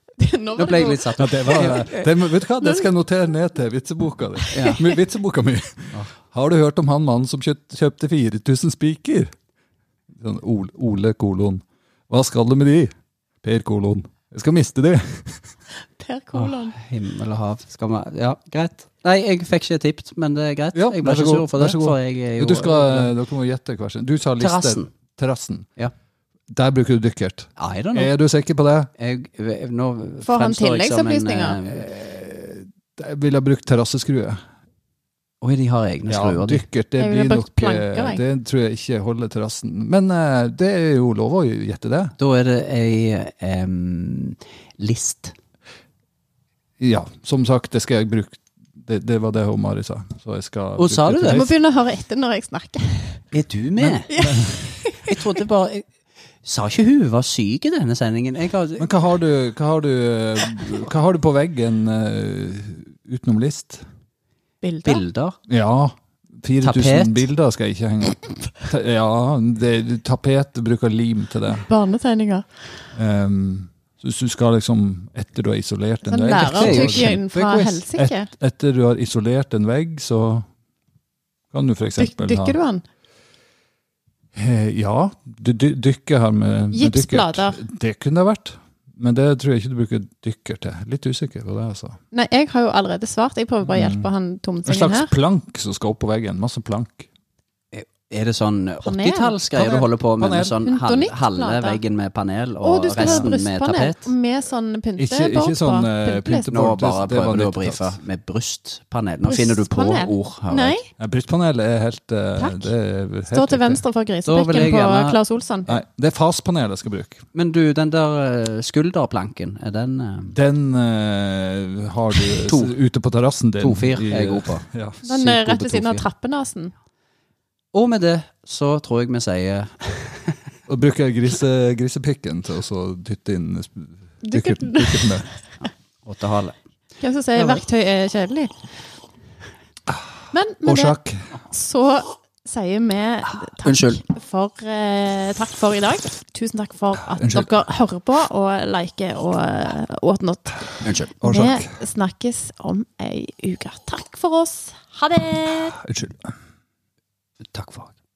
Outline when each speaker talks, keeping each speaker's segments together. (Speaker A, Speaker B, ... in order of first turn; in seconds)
Speaker A: 0.2-1.1, 4.5-4.9, 16.0-16.7, 30.2-31.6, 37.0-38.2, 51.3-53.2, 54.1-55.2, 64.6-65.0, 71.7-72.5, 76.0-78.3, 82.0-82.8, 86.7-87.6, 92.1-95.1, 98.8-99.3, 100.6-101.8, 102.6-106.5, 109.2-110.9, 112.4-112.7, 113.3-115.8, 125.0-126.7, 134.2-135.2, 137.0-138.6, 140.3-141.0, 141.5-155.8
Speaker B: 0.6-2.1, 4.5-4.8, 16.3-23.1, 24.4-24.9, 27.6-28.1, 29.0-31.9, 35.4-36.6, 42.2-45.3, 50.8-51.5, 53.3-54.1, 55.0-55.8, 56.4-58.9, 64.8-65.4, 66.6-67.2, 76.2-77.8, 97.7-104.1, 106.4-110.8, 114.2-115.2, 117.3-120.3, 122.5-122.7, 123.6-124.6, 127.7-130.4, 135.6-136.6, 137.3-137.6, 143.6-144.0, 150.8-151.1, 157.5-157.9
Speaker C: 1.2-9.3, 10.1-12.9, 13.4-15.5, 20.7-25.7, 26.5-28.9, 31.8-34.4, 36.1-42.1, 46.8-51.5, 53.8-54.6, 58.8-63.8, 65.5-71.7, 72.9-77.2, 77.9-80.5, 81.5-82.6, 84.3-92.0, 93.7-94.1, 94.7-97.1, 99.5-100.6, 103.0-103.3, 105.0-108.0, 111.0-113.8, 115.7-117.2, 120.3-126.0, 130.7-135.3, 140.6-141.3, 147.2-147.5, 151.2-151.7, 155.8-156.3